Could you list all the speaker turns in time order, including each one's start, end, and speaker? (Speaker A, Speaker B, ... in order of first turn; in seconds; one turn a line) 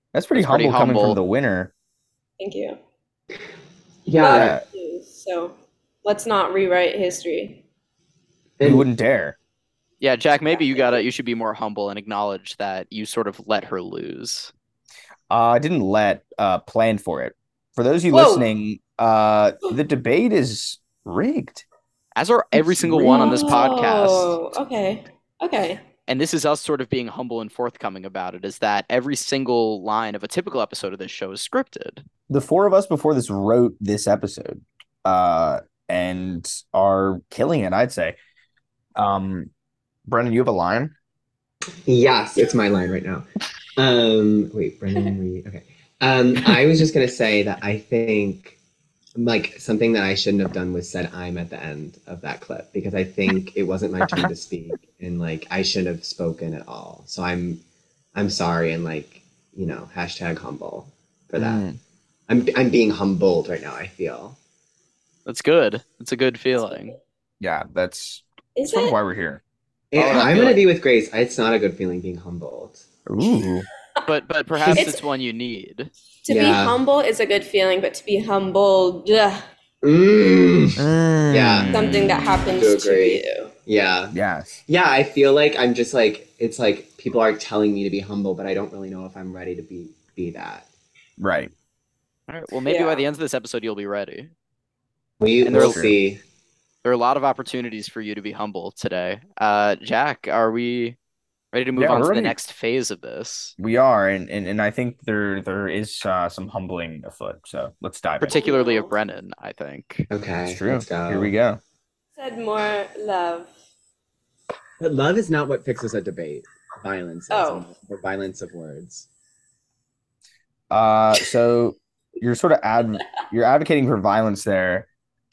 Speaker A: 0.1-1.7
Speaker B: 0.3-1.2
Speaker C: 2.4-2.8
Speaker D: 4.1-4.5
Speaker C: 4.2-7.6
Speaker A: 4.3-4.6
Speaker D: 8.6-8.8
Speaker A: 8.6-9.4
Speaker B: 10.0-14.5
Speaker C: 10.5-11.1
Speaker A: 15.3-21.6
Speaker C: 18.1-18.5
Speaker B: 22.2-24.4
Speaker A: 22.6-23.6
Speaker C: 23.1-25.8
Speaker B: 26.1-32.0
Speaker A: 32.3-38.2
Speaker A: 39.0-39.5
Speaker A: 40.1-40.9
Speaker D: 41.9-48.6
Speaker D: 49.2-57.6
Speaker D: 58.1-61.6
Speaker A: 61.4-61.8
Speaker D: 62.3-64.4
Speaker B: 65.3-67.0
Speaker A: 67.4-69.4
Speaker C: 68.6-69.0
Speaker D: 69.9-72.8
Speaker B: 70.0-70.7
Speaker A: 73.1-73.7
Speaker B: 74.1-75.9
Speaker C: 74.7-75.0
Speaker C: 76.2-79.4
Speaker D: 76.3-76.8
Speaker D: 79.8-81.7
Speaker A: 80.8-82.2
Speaker C: 81.7-83.5
Speaker D: 82.5-90.7
Speaker A: 84.1-84.5
Speaker A: 91.2-91.5
Speaker B: 92.3-94.3
Speaker C: 92.7-93.0
Speaker D: 95.2-96.2
Speaker B: 95.4-95.8
Speaker A: 95.5-96.0
Speaker B: 96.8-101.0
Speaker B: 101.5-103.5
Speaker A: 101.8-102.4
Speaker A: 103.6-108.4
Speaker B: 108.2-110.1
Speaker C: 108.3-108.9
Speaker D: 110.1-111.3
Speaker A: 110.5-111.6
Speaker C: 112.2-113.5
Speaker D: 114.8-119.1
Speaker C: 117.3-117.7
Speaker A: 120.7-124.9